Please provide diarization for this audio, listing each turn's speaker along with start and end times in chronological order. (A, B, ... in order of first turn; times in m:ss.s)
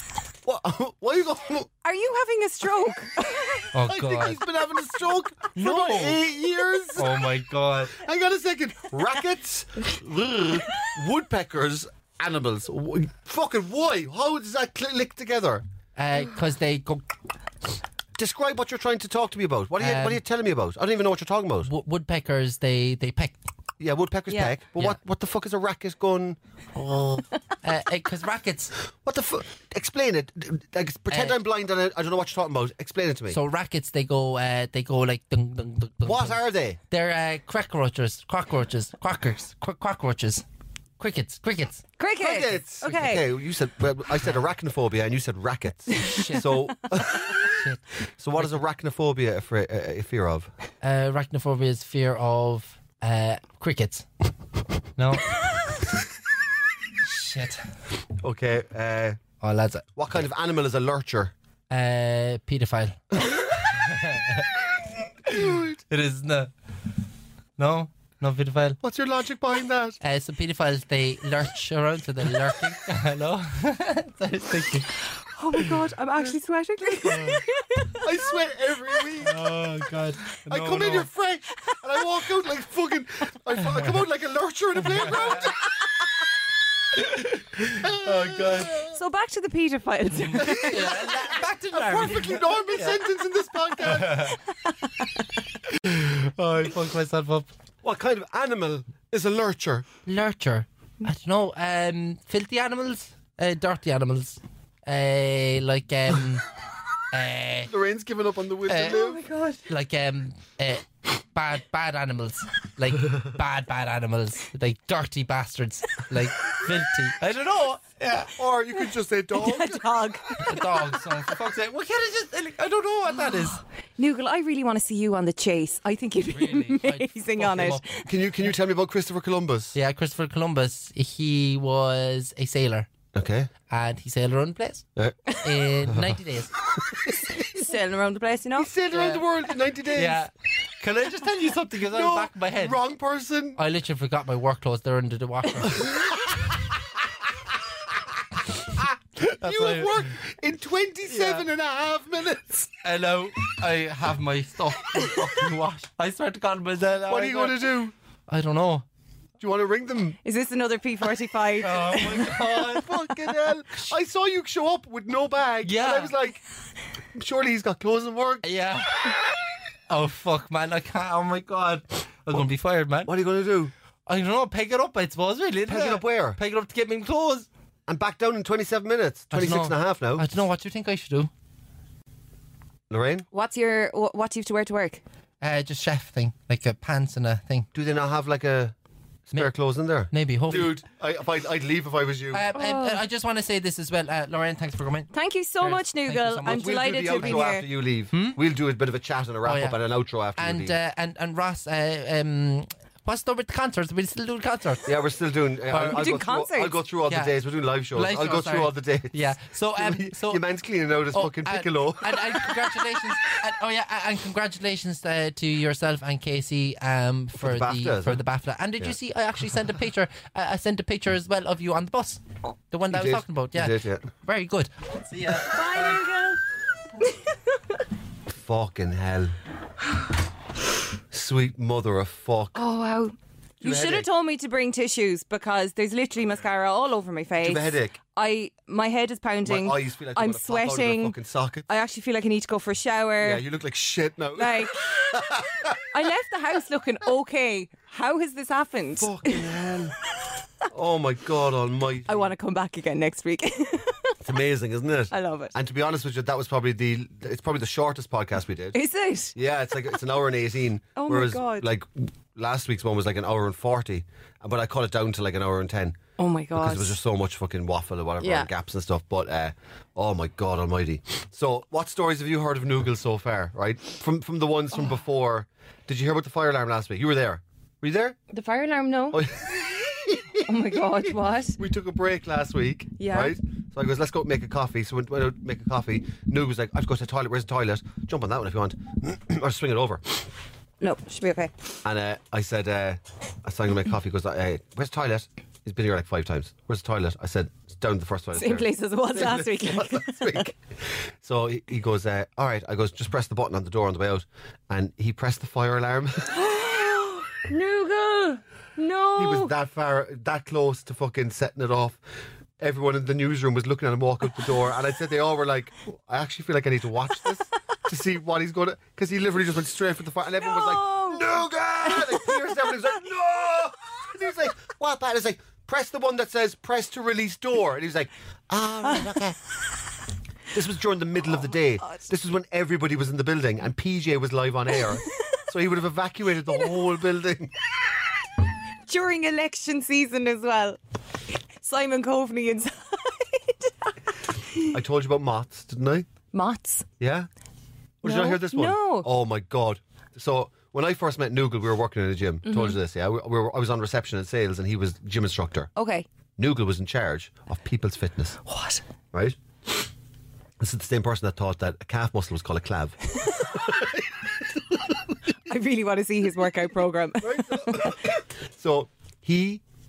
0:00.4-0:01.7 A
0:01.8-0:03.7 B
0:03.7-0:04.4 C
0:03.8-0:07.1 A
0:05.5-0:06.2 C
0:07.0-0:08.0 C
0:07.9-0:15.6 A
0:16.0-0:17.0 C
0:18.2-0:21.7 A
0:19.8-0:20.2 C
0:21.7-0:23.4 C
0:23.8-0:26.4 A
0:24.3-0:24.6 B
0:26.7-0:28.7 C
0:29.0-0:33.4 A
0:31.1-0:31.4 C
0:33.3-0:40.4 C
0:36.0-0:36.8 A
0:41.0-0:41.8 C
0:42.0-0:43.2 B
0:42.2-0:47.6 A
0:46.0-0:46.7 C
0:47.3-0:47.8 C
0:48.2-0:50.5 A
0:50.8-0:54.0 C
0:55.0-0:55.4 C
0:57.0-0:57.6 C
0:58.2-0:59.2 A
0:59.4-0:59.9 C
1:00.0-1:01.3 A
1:01.7-1:04.5 C
1:05.2-1:06.5 C
1:05.4-1:05.7 A
1:07.6-1:08.8 C
1:08.8-1:10.0 A
1:10.0-1:15.0 C
1:15.3-1:18.0 B
1:17.0-1:17.4 C
1:18.0-1:19.4 A
1:19.2-1:21.1 C
1:20.5-1:25.6 A
1:24.9-1:25.5 C
1:27.0-1:28.9 C
1:27.6-1:28.9 A
1:28.9-1:31.2 B
1:30.3-1:33.0 C
1:30.4-1:34.2 A
1:33.8-1:34.4 C
1:35.7-1:37.5 C
1:37.8-1:39.8 A
1:40.0-1:46.4 C
1:47.1-1:47.7 C
1:47.7-1:49.2 A
1:48.6-1:58.3 C
1:48.9-1:49.6 B
1:58.3-1:59.8 A
1:59.3-2:01.0 B
2:00.4-2:03.6 C
2:04.0-2:08.0 B
2:06.3-2:08.0 C
2:08.0-2:09.8 A
2:09.7-2:12.9 C
2:13.1-2:13.5 A
2:13.7-2:16.5 C
2:15.8-2:16.1 A
2:16.9-2:17.6 A
2:17.5-2:18.7 B
2:18.6-2:20.2 A
2:18.9-2:19.2 C
2:19.8-2:22.8 C
2:21.9-2:23.6 A
2:23.6-2:26.1 C
2:28.6-2:32.7 A
2:29.4-2:30.0 C
2:31.1-2:31.5 C
2:32.8-2:37.7 C
2:37.1-2:37.9 A
2:38.3-2:38.8 C
2:39.4-2:40.2 A
2:40.2-2:42.3 B
2:41.6-2:43.4 C
2:42.2-2:46.4 A
2:45.6-2:46.1 C
2:47.1-2:48.4 A
2:48.4-2:49.2 C
2:49.9-2:53.1 C
2:53.0-2:53.7 A
2:54.1-2:57.5 C
2:55.7-2:56.4 A
2:57.9-3:00.2 A
2:59.3-3:01.3 C
3:02.9-3:03.3 A
3:03.3-3:05.0 B
3:05.4-3:07.7 C
3:07.7-3:08.7 A
3:09.3-3:12.4 A
3:10.1-3:10.7 C
3:12.3-3:17.6 C
3:12.5-3:13.0 B
3:15.1-3:17.6 B
3:16.4-3:20.7 A
3:18.1-3:18.4 C
3:19.4-3:19.8 C
3:20.4-3:24.9 C
3:24.8-3:29.2 A
3:25.7-3:26.1 C
3:25.8-3:26.8 B
3:27.1-3:27.3 C
3:27.9-3:30.4 C
3:29.8-3:32.8 A
3:31.1-3:46.0 C
3:37.4-3:38.2 A
3:42.9-3:44.0 A
3:45.4-3:46.4 B
3:47.0-3:47.8 B
3:48.4-3:49.4 A
3:51.1-3:52.6 A
3:52.5-4:01.2 B
3:53.6-3:54.1 A
3:57.4-3:58.0 A
3:59.4-4:01.7 A
4:01.7-4:03.4 B
4:03.2-4:05.8 A
4:04.4-4:09.5 B
4:09.0-4:10.0 A
4:10.7-4:12.3 A
4:12.0-4:14.2 B
4:14.2-4:18.8 A
4:15.1-4:15.5 B
4:18.7-4:19.4 B
4:19.3-4:26.0 A
4:21.0-4:21.6 B
4:26.2-4:27.0 B
4:26.5-4:38.2 A
4:28.2-4:28.5 B
4:38.3-4:39.2 B
4:39.1-4:40.5 A
4:40.4-4:41.6 B
4:41.6-4:50.3 A
4:43.0-4:43.3 B
4:50.8-4:51.5 B
4:51.8-5:00.6 A
4:58.3-5:00.5 B
5:01.2-5:06.4 A
5:06.3-5:09.5 B
5:09.2-5:12.0 A
5:12.6-5:29.4 A
5:20.4-5:22.9 B
5:30.5-5:37.5 A
5:38.9-5:40.8 B
5:41.6-5:43.9 B
5:44.6-5:46.0 A
5:46.3-5:46.8 B
5:47.0-5:47.3 A
5:48.0-5:55.7 A
5:48.0-5:49.1 B
5:52.4-5:52.8 B
5:55.8-5:56.1 B
5:56.4-5:58.4 A
5:58.4-5:58.8 B
5:59.1-5:59.9 A
6:00.6-6:04.1 A
6:05.5-6:08.0 B
6:07.2-6:09.6 A